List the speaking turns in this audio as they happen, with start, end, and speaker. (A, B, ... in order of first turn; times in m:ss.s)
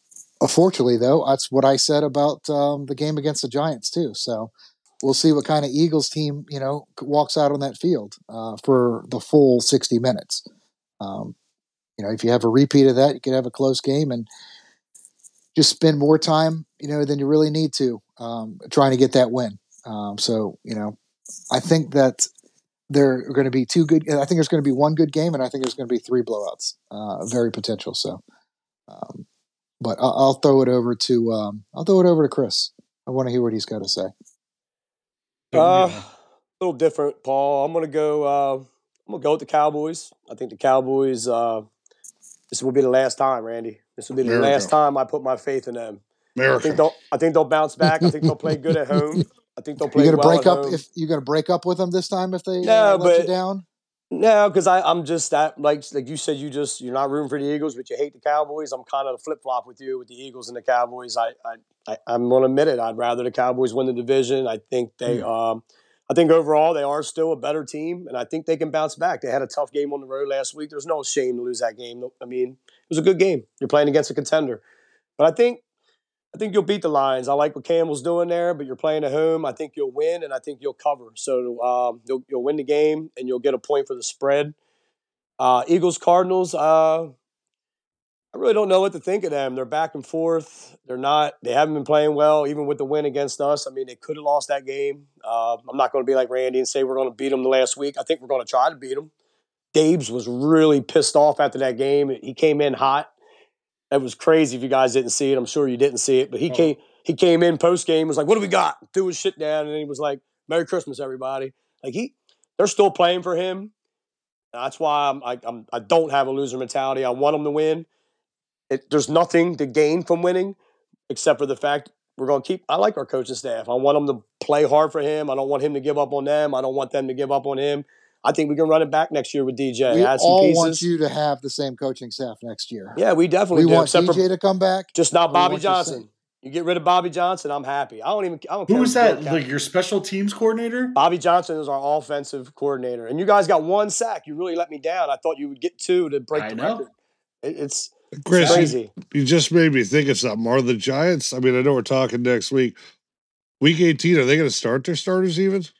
0:00.4-0:10.4 A
0:11.0-0:11.4 A
0:12.0-0:14.3 A
0:15.6-0:21.0 A
0:21.5-0:22.2 A
0:22.9-0:28.2 A
0:28.9-0:29.2 A
0:29.8-0:34.1 A
0:35.5-0:36.0 B
0:35.5-0:41.7 C
0:42.5-0:46.0 C
0:44.2-0:44.7 D
0:46.4-0:46.8 D
0:46.6-0:50.8 C
0:50.0-0:53.6 A
0:52.6-0:53.3 C
0:54.1-1:14.6 C
1:15.2-1:15.6 C
1:16.3-1:24.6 C
1:25.4-1:27.1 C
1:28.3-1:39.1 C
1:39.7-1:43.1 C
1:43.9-1:53.7 C
1:46.5-1:46.7 B
1:54.5-1:57.9 C
1:58.7-2:00.6 C
2:01.1-2:10.9 C
2:09.9-2:13.0 A
2:13.0-2:14.2 C
2:13.5-2:16.0 A
2:15.0-2:19.5 C
2:18.7-2:21.0 B
2:21.0-2:26.9 C
2:26.4-2:26.9 B
2:27.4-2:28.9 C
2:28.2-2:32.8 D
2:28.3-2:28.7 B
2:33.6-2:35.7 D